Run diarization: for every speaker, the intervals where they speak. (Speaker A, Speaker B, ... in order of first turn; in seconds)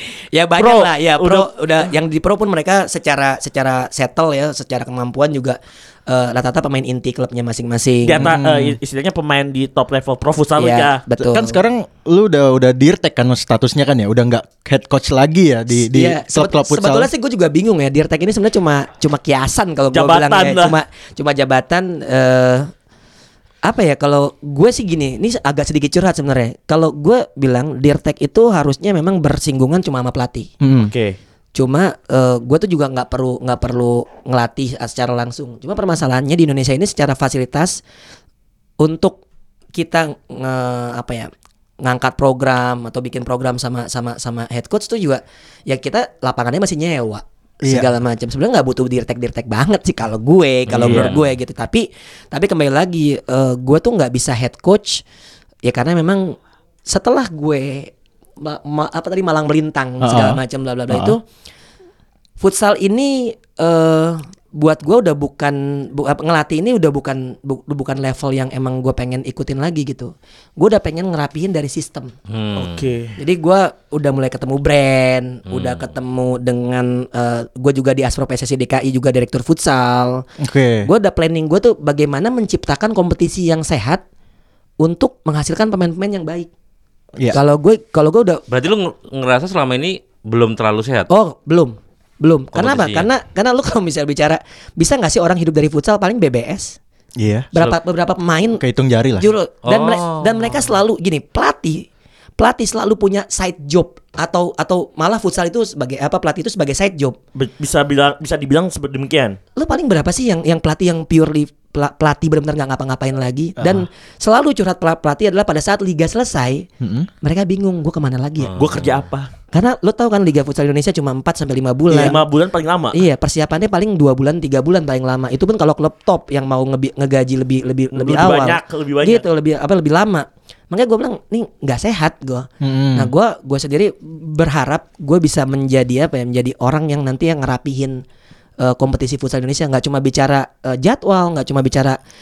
Speaker A: 0.3-8.3, 10.6-11.6, 15.7-22.7, 23.6-30.5, 31.6-37.8, 38.8-39.2, 39.8-55.0, 55.6-61.2, 62.4-72.1, 73.2-80.2, 80.8-84.0, 84.8-86.5, 87.3-88.4, 91.1-96.8, 97.5-98.6, 99.2-101.9, 102.4-107.2, 109.6-116.7, 117.2-118.6, 119.5-122.2, 122.9-138.0, 138.6-142.0
Speaker B: 0.6-1.5, 8.1-11.0, 19.9-20.8, 30.9-31.2, 72.5-73.1, 107.3-109.4, 118.5-119.3, 121.9-123.0, 127.9-129.2
Speaker C: 8.2-8.8, 11.2-17.1, 30.6-30.9, 47.6-47.9, 50.7-51.1, 60.0-61.2, 80.4-80.9, 97.2-97.8, 98.6-99.3, 113.6-113.9, 116.8-117.1, 132.6-133.1
Speaker D: 50.7-51.2, 72.3-72.9, 75.5-75.9, 88.5-91.1, 92.5-93.1, 99.6-100.6, 118.5-119.0